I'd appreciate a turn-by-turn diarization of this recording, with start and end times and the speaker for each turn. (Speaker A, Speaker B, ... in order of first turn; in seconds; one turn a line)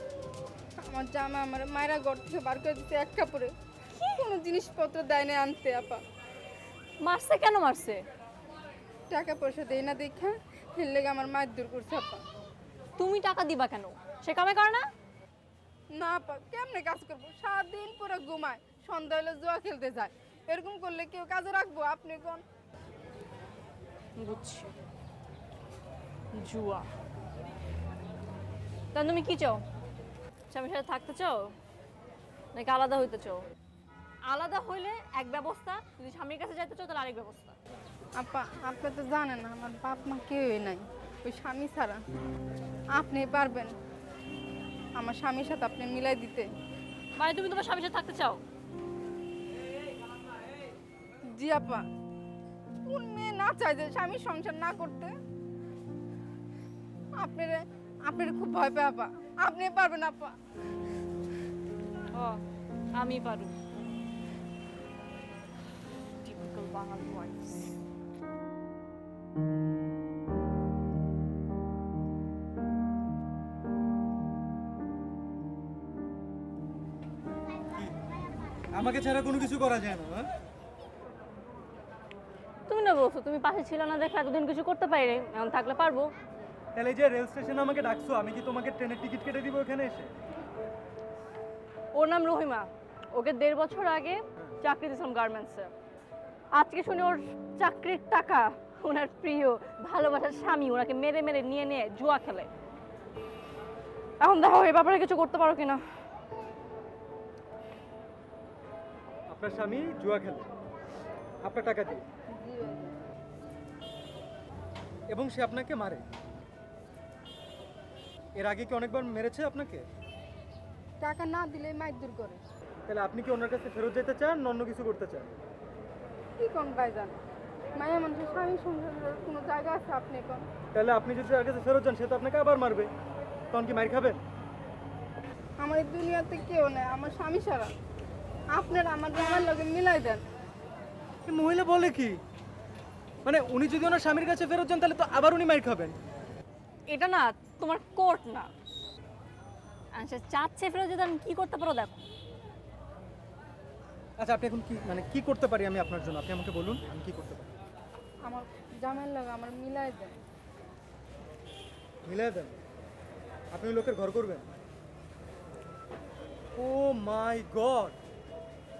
Speaker A: 0.8-3.5
Speaker B: 3.9-4.2
Speaker A: 4.1-6.0
Speaker B: 7.0-8.0
Speaker A: 9.1-12.2
Speaker B: 13.0-14.9
Speaker A: 15.9-22.4
Speaker B: 24.2-24.7
Speaker B: 26.3-26.9
Speaker B: 28.9-29.6
Speaker B: 30.5-31.5
Speaker B: 32.5-33.4
Speaker B: 34.2-37.6
Speaker A: 38.1-42.0
Speaker A: 42.9-43.8
Speaker A: 45.0-46.5
Speaker B: 47.1-48.4
Speaker A: 51.3-51.8
Speaker A: 52.9-55.1
Speaker A: 57.2-60.3
Speaker B: 62.1-62.4
Speaker B: 62.9-63.5
Speaker B: 66.2-67.7
Speaker C: 78.7-80.3
Speaker B: 82.7-86.1
Speaker C: 86.7-90.1
Speaker B: 91.9-95.7
Speaker B: 96.5-102.5
Speaker B: 104.2-105.8
Speaker C: 109.3-110.5
Speaker C: 111.4-112.0
Speaker A: 112.3-113.0
Speaker C: 115.1-116.1
Speaker C: 118.4-119.8
Speaker A: 121.0-122.4
Speaker C: 122.8-125.3
Speaker A: 126.4-127.2
Speaker A: 127.7-130.5
Speaker C: 130.7-132.9
Speaker C: 133.5-134.2
Speaker A: 135.6-137.7
Speaker A: 138.5-140.2
Speaker C: 141.3-142.2
Speaker C: 143.2-145.9
Speaker B: 146.9-148.5
Speaker B: 149.9-152.0
Speaker C: 154.2-157.5
Speaker A: 158.2-160.2
Speaker C: 162.0-162.6
Speaker C: 163.5-164.5
Speaker C: 166.6-168.0